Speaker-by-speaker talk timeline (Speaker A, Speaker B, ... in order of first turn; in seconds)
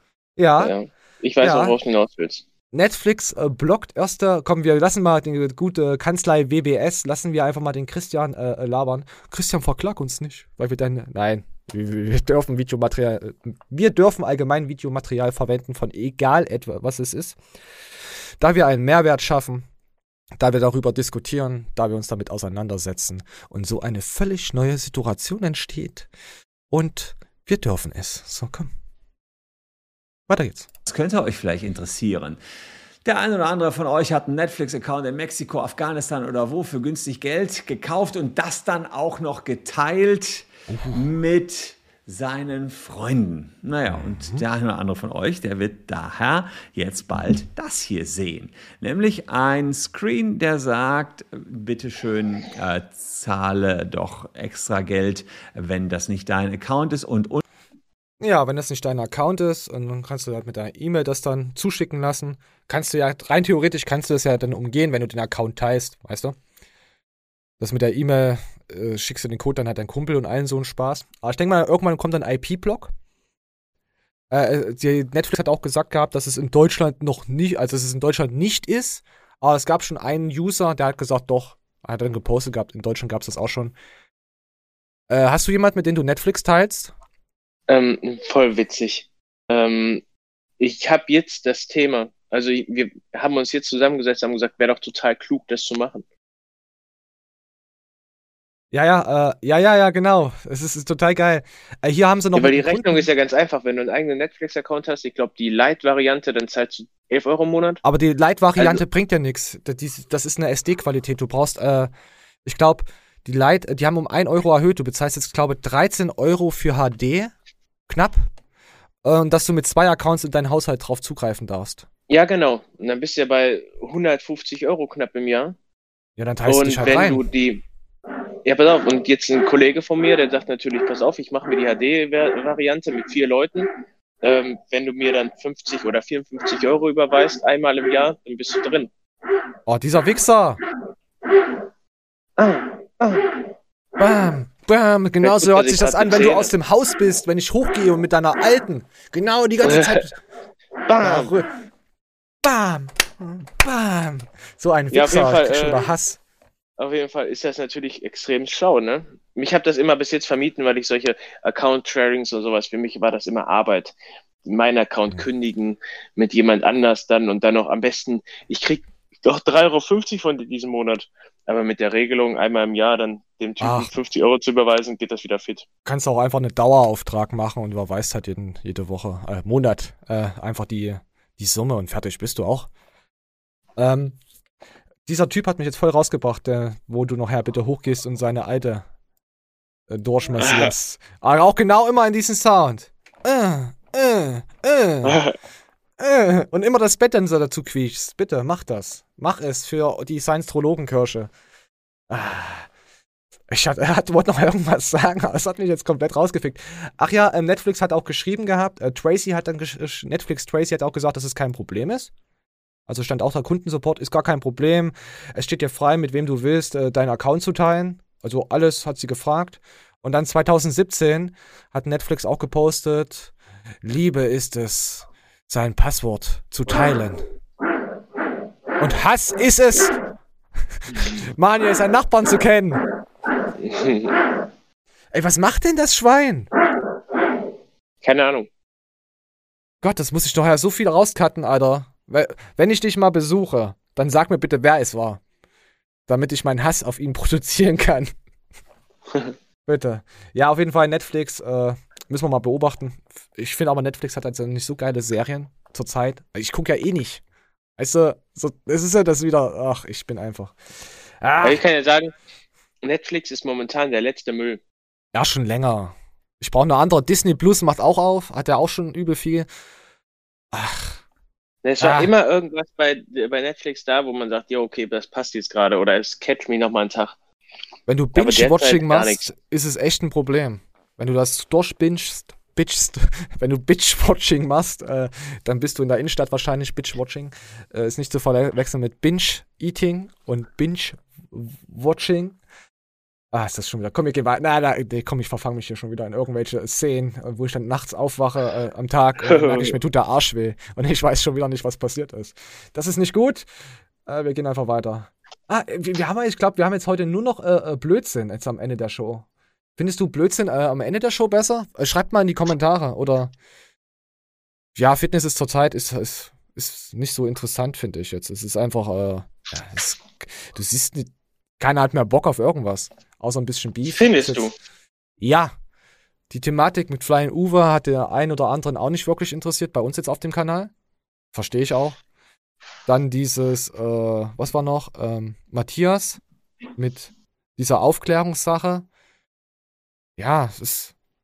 Speaker A: 0.4-0.7, 1.4-1.8, 2.7-17.4, 18.4-19.7, 20.4-26.1, 26.7-28.7, 30.3-30.7, 40.7-41.0, 43.9-44.4, 58.2-66.4, 67.6-72.9, 74.3-83.7, 85.1-86.9, 98.7-103.1, 107.8-111.9, 112.4-117.3, 117.9-118.3, 119.0-121.9, 126.2-127.2, 139.7-140.6, 144.0-150.1, 151.0-151.5, 152.4-156.2, 173.6-173.9, 175.8-182.7, 183.8-184.2, 185.1-188.8, 189.9-195.2, 196.0-201.3, 202.1-202.7, 203.5-212.1, 212.9-227.2, 228.8-229.9, 230.9-232.8, 235.1-236.5, 239.8-245.2, 246.1-248.1, 249.7-257.2, 257.8-260.6, 261.2-261.6, 265.1-269.5, 270.5-271.0, 271.8-272.1, 277.9-292.4, 293.3-303.5, 304.1-313.3, 314.7-324.5, 325.2-325.5, 326.3-330.7, 331.3-332.0, 332.9-336.2, 336.8-338.9, 340.2-340.9
Speaker B: 0.6-2.4, 87.7-90.0, 90.6-96.0, 102.3-107.8, 122.1-125.5, 126.5-127.6, 128.4-133.7, 134.2-138.9, 142.4-143.4, 145.2-146.5, 149.6-150.1, 150.8-151.3, 154.9-155.8, 156.8-175.6, 190.4-190.7, 195.0-195.3, 233.6-234.2, 238.0-238.5, 261.4-262.1, 262.8-264.6, 271.6-277.1, 278.1-279.3, 299.2-299.8, 323.9-324.5
Speaker C: 30.9-32.4, 33.0-57.4